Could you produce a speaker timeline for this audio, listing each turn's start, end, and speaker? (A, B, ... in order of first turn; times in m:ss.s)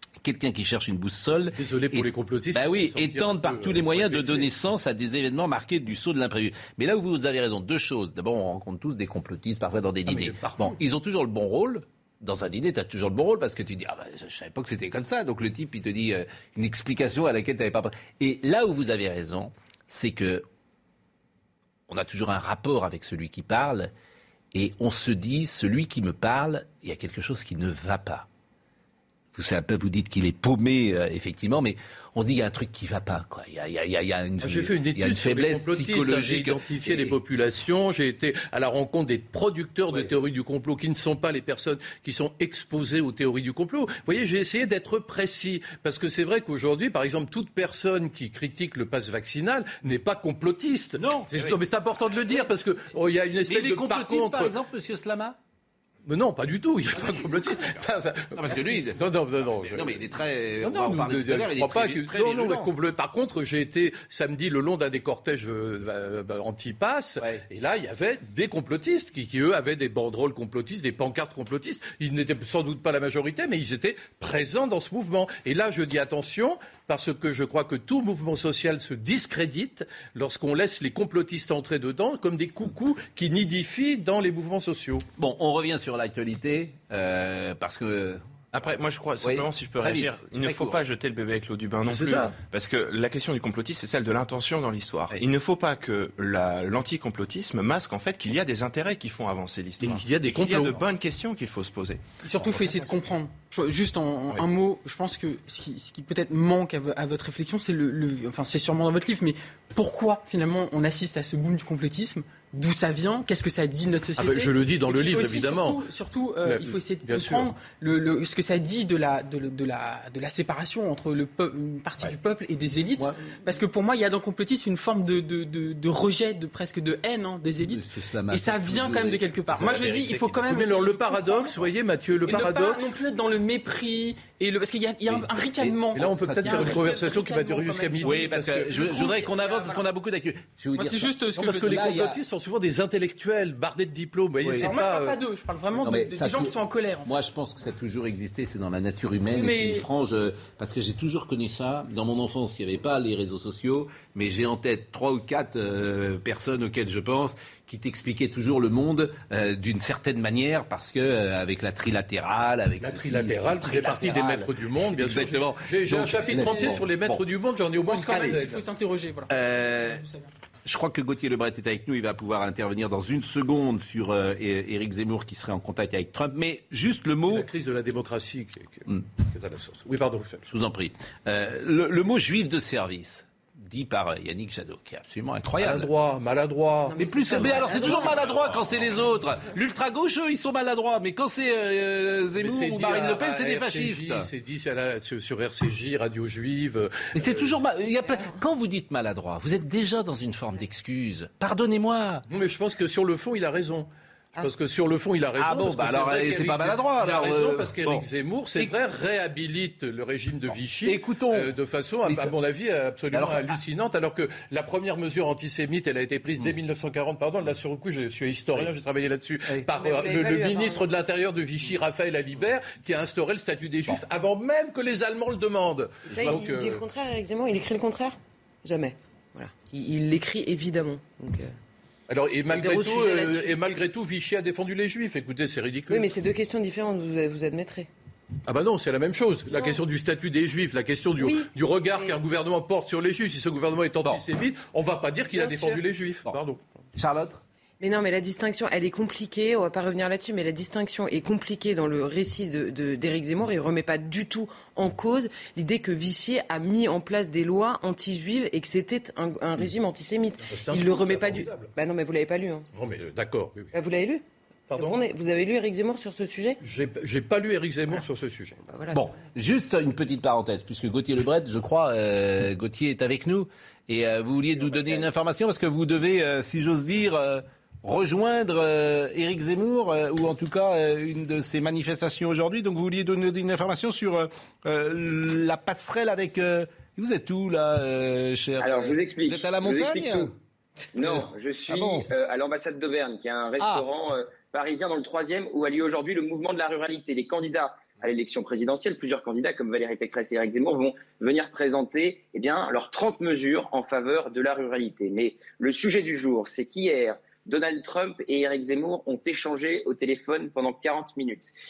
0:00.2-0:20.4 A
0:01.5-0:04.5 B
0:10.1-0:10.8 B
0:21.9-0:23.9 A
0:24.5-0:28.3 A
0:29.3-0:37.2 A
0:34.4-0:54.6 B
0:51.0-0:51.6 A
0:53.4-0:55.4 A
0:56.0-1:00.0 B
0:57.0-0:57.2 A
0:58.3-1:02.7 A
1:00.6-1:25.0 B
1:25.2-1:28.2 A
1:28.5-1:42.7 C
1:29.2-1:30.8 A
1:31.8-1:32.3 B
1:39.9-1:40.8 B
1:42.2-2:11.6 D
1:54.2-1:55.8 B
1:56.4-1:57.5 B
2:07.6-2:10.7 A
2:10.4-2:12.9 B
2:12.2-2:19.8 D
2:15.1-2:16.8 A
2:15.9-2:19.1 B
2:18.0-2:22.2 A
2:20.8-2:21.8 D
2:21.4-2:25.2 B
2:24.4-2:24.7 A
2:24.6-2:27.1 D
2:25.8-2:26.5 A
2:27.0-2:47.2 A
2:29.3-2:29.8 D
2:42.8-2:48.6 B
2:46.4-2:46.8 D
2:47.8-2:50.3 D
2:48.1-2:48.4 A
2:49.3-2:50.0 A
2:50.6-2:57.5 A
2:57.3-3:00.5 B
3:00.5-3:05.9 A
3:05.6-3:08.9 B
3:06.9-3:08.3 E
3:07.0-3:14.3 A
3:12.4-3:17.6 B
3:17.1-3:22.2 A
3:22.3-3:46.8 B
3:25.4-3:28.1 A
3:30.8-3:32.4 A
3:33.1-3:33.6 A
3:39.7-3:40.8 E
3:46.1-3:51.5 E
3:46.1-3:46.4 A
3:52.1-3:56.1 B
3:52.5-3:53.7 E
3:55.9-3:57.9 E
3:58.4-4:06.6 B
3:59.5-3:59.8 E
4:01.2-4:02.2 E
4:05.3-4:05.8 E
4:07.0-4:07.4 A
4:07.8-4:22.7 E
4:20.5-4:21.7 B
4:22.7-4:23.7 B
4:23.7-4:26.6 E
4:24.7-4:25.0 B
4:26.6-4:28.6 B
4:28.6-4:29.0 E
4:28.9-4:50.3 A
4:48.6-4:50.3 F
4:50.9-4:52.1 A
4:50.9-5:11.5 F
4:53.6-4:53.8 A